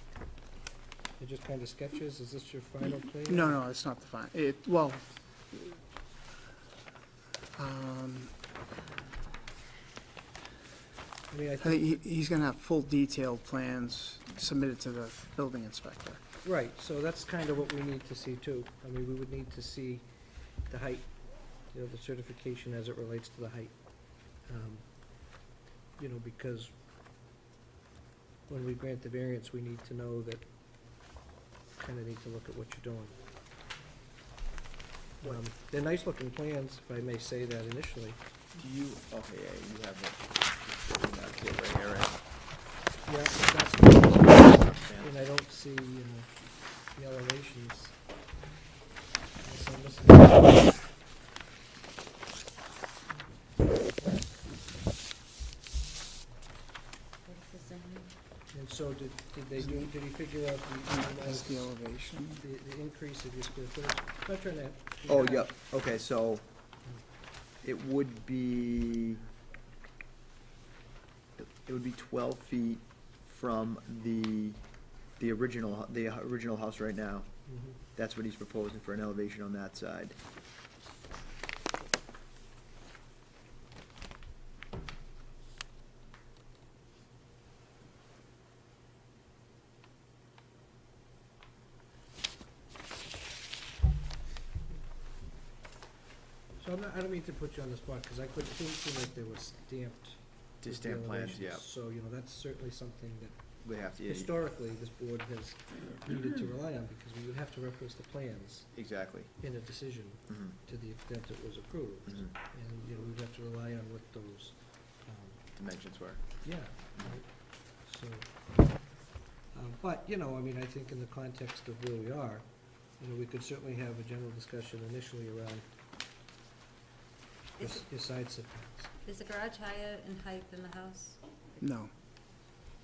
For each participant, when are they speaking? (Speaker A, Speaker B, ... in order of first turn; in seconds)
Speaker A: 1.2-3.6, 11.3-12.0, 16.4-25.4, 26.0-26.7, 28.5-30.4, 31.8-33.2, 35.2-38.2, 43.1-48.0, 49.4-50.7, 58.5-61.8, 62.4-65.5, 77.5-77.8, 96.6-108.8, 109.4-115.5, 116.4-118.3, 119.5-125.7, 127.6-128.9
Speaker B: 3.1-5.8, 7.5-8.3, 11.6-16.2, 60.9-62.4, 131.6-131.9
Speaker C: 38.6-42.2, 44.5-45.1, 65.1-66.5, 67.6-69.2, 71.4-74.6, 75.2-77.3, 77.9-80.2, 100.6-101.7, 103.6-104.3, 108.7-109.4, 110.3-110.5, 115.6-116.4
Speaker D: 57.2-58.1, 129.1-131.2